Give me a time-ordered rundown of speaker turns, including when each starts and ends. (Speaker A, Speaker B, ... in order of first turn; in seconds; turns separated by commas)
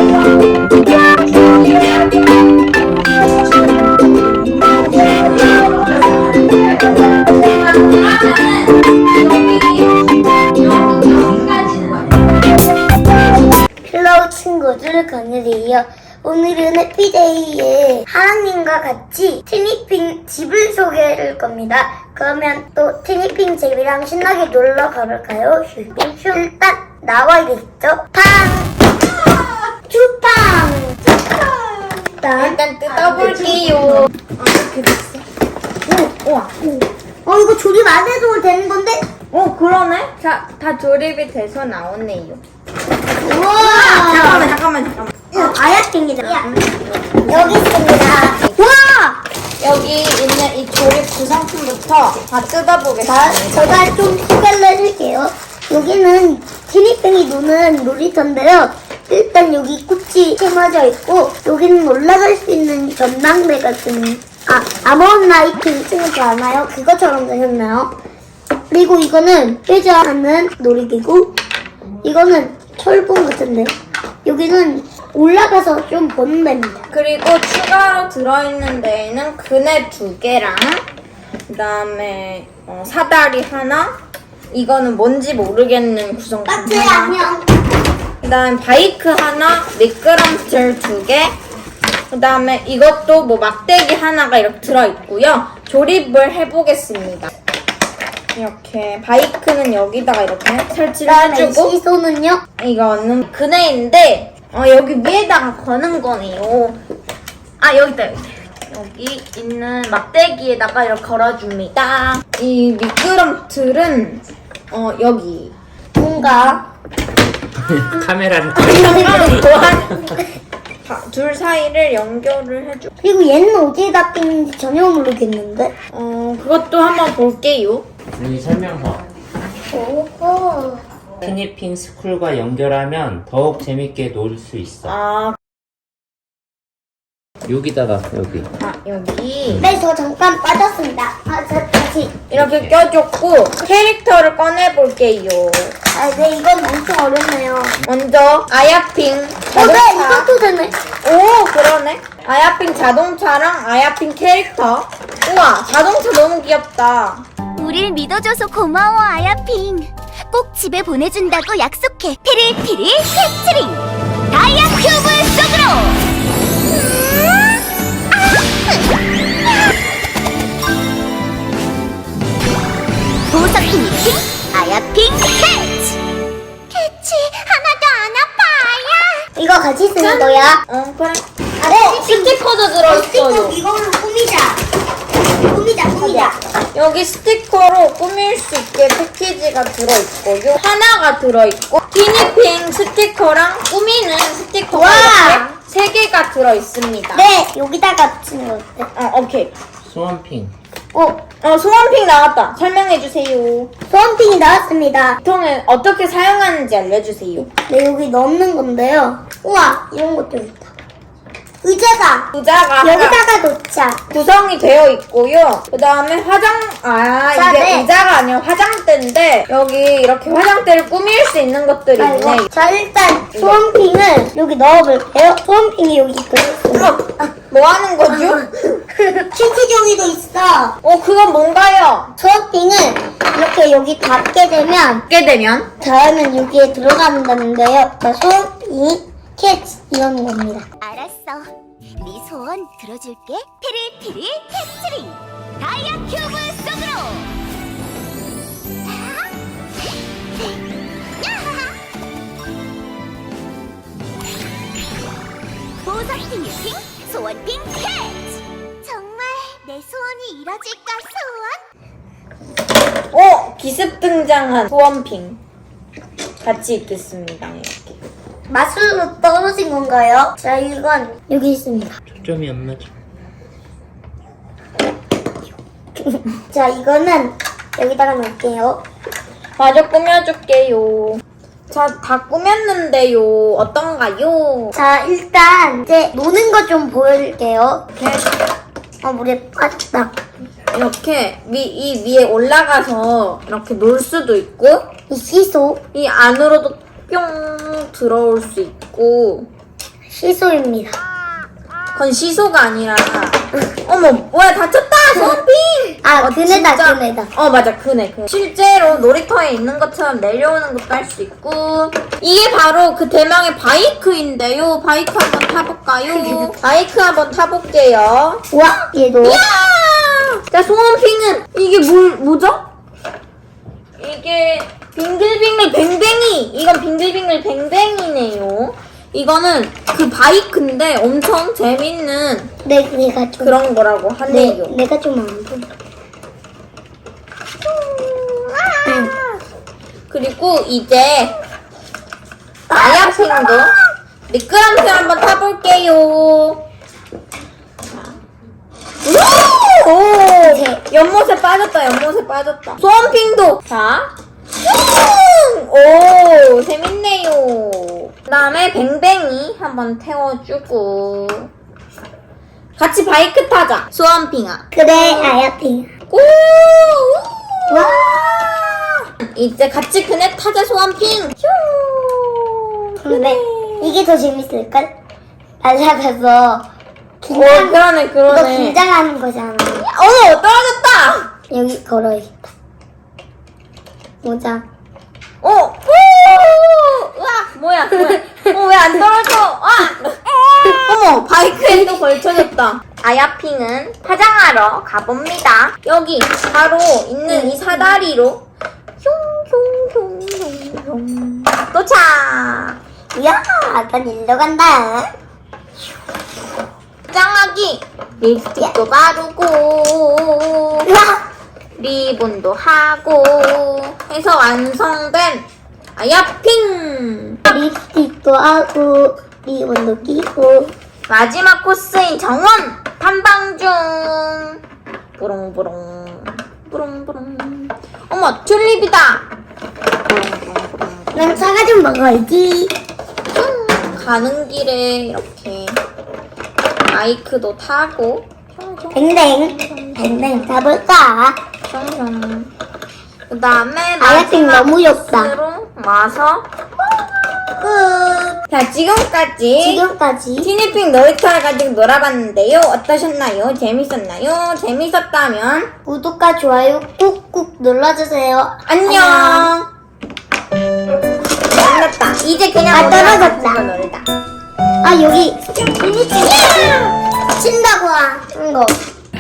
Speaker A: 1.6-1.9, Speaker A: 5.2-12.3, Speaker B: 13.9-28.7, Speaker B: 29.9-31.0, Speaker A: 31.2-35.2, Speaker B: 32.2-34.1, Speaker A: 35.9-36.5, Speaker B: 37.2-39.1, Speaker A: 39.3-42.4, Speaker B: 43.2-44.5, Speaker A: 43.6-45.6, Speaker B: 45.3-46.6, Speaker A: 46.2-48.6, Speaker B: 47.3-49.2, Speaker A: 49.6-53.9, Speaker B: 53.0-67.9, Speaker B: 68.7-71.3, Speaker B: 72.0-73.7, Speaker B: 74.2-76.8, Speaker A: 76.9-80.8, Speaker A: 81.5-83.9, Speaker A: 84.5-87.2, Speaker B: 86.5-87.5, Speaker A: 88.2-91.3, Speaker A: 92.1-97.3, Speaker A: 98.4-101.7, Speaker B: 101.0-102.4, Speaker A: 102.6-106.8, Speaker A: 107.6-115.5, Speaker B: 116.0-116.7, Speaker C: 117.5-120.2, Speaker A: 118.6-120.2, Speaker B: 118.8-119.4, Speaker A: 120.8-122.9, Speaker B: 123.0-125.7, Speaker A: 125.9-127.9, Speaker C: 128.2-129.1, Speaker B: 129.7-130.8, Speaker C: 131.2-135.0, Speaker A: 134.9-135.4, Speaker C: 137.4-138.5, Speaker A: 138.6-139.7, Speaker B: 139.6-142.1, Speaker A: 142.3-145.8, Speaker C: 142.3-142.8, Speaker B: 145.9-147.8, Speaker A: 147.8-150.3, Speaker B: 149.5-150.7, Speaker A: 151.0-157.2, Speaker D: 157.6-166.1, Speaker D: 166.7-168.9, Speaker D: 173.3-176.0, Speaker D: 176.7-179.3, Speaker B: 179.4-180.6, Speaker A: 180.0-181.2, Speaker B: 181.6-184.6, Speaker A: 181.8-183.6, Speaker B: 185.4-186.4, Speaker A: 186.0-197.3, Speaker B: 194.7-195.5, Speaker B: 197.1-198.9, Speaker A: 198.9-199.5, Speaker C: 199.8-200.5, Speaker B: 200.9-201.2, Speaker A: 201.4-203.7, Speaker B: 203.9-205.2, Speaker A: 205.2-207.5, Speaker B: 207.7-210.7, Speaker B: 211.6-212.3, Speaker A: 212.3-213.2, Speaker B: 212.8-214.0, Speaker A: 214.1-222.5, Speaker B: 217.3-217.9, Speaker B: 222.0-226.9, Speaker A: 223.3-223.6, Speaker A: 226.7-228.8, Speaker B: 228.1-230.8, Speaker A: 230.8-232.1, Speaker B: 232.2-235.0, Speaker A: 235.1-235.7, Speaker B: 235.8-240.7, Speaker D: 240.8-247.3, Speaker D: 248.8-249.4, Speaker D: 250.3-250.6, Speaker D: 251.2-251.8, Speaker D: 255.8-261.6, Speaker A: 263.1-265.4, Speaker A: 266.4-268.0, Speaker B: 268.5-272.0, Speaker C: 272.1-272.9, Speaker B: 276.0-278.8, Speaker A: 279.6-284.7, Speaker B: 284.8-287.8, Speaker A: 288.0-288.3, Speaker B: 289.0-290.1, Speaker A: 290.7-294.9, Speaker B: 295.1-295.8, Speaker A: 295.9-299.5, Speaker B: 300.1-301.0, Speaker A: 301.9-318.4, Speaker B: 306.0-307.3, Speaker B: 316.1-316.5, Speaker B: 318.5-319.4, Speaker A: 319.2-322.6, Speaker A: 324.0-332.5, Speaker B: 332.6-333.6, Speaker A: 333.4-334.8, Speaker B: 334.3-335.7, Speaker A: 337.6-339.4, Speaker B: 338.9-339.1, Speaker A: 340.1-341.3, Speaker B: 342.7-343.7, Speaker A: 342.8-343.7, Speaker A: 344.3-346.6, Speaker A: 347.9-348.2, Speaker A: 349.0-354.1, Speaker B: 350.4-350.8, Speaker A: 354.6-361.5, Speaker A: 362.8-365.4, Speaker B: 364.7-365.9, Speaker A: 366.1-373.9, Speaker B: 367.7-368.1, Speaker B: 373.0-374.9, Speaker B: 375.6-376.7, Speaker B: 377.2-379.9, Speaker A: 377.3-378.8, Speaker A: 379.8-381.3, Speaker B: 381.5-382.5, Speaker B: 384.2-384.6, Speaker A: 385.4-398.4, Speaker B: 397.3-398.0, Speaker A: 399.0-402.8, Speaker B: 403.1-405.1, Speaker A: 407.1-410.9, Speaker B: 410.8-411.2, Speaker A: 411.8-415.5, Speaker A: 416.0-417.4, Speaker B: 417.5-420.7, Speaker A: 421.1-424.6, Speaker A: 425.2-429.3, Speaker A: 430.1-431.4, Speaker B: 431.1-432.7, Speaker A: 433.3-435.8, Speaker A: 436.9-440.7, Speaker B: 438.9-441.4, Speaker A: 441.7-442.5, Speaker A: 443.3-446.5, Speaker B: 444.0-445.3, Speaker B: 447.6-448.4, Speaker A: 448.5-449.9, Speaker B: 449.6-450.5, Speaker A: 450.4-455.7, Speaker B: 455.9-459.5, Speaker A: 458.7-459.7, Speaker A: 461.5-464.1, Speaker B: 462.7-463.7, Speaker B: 464.8-466.8, Speaker A: 466.1-466.9, Speaker B: 467.4-468.8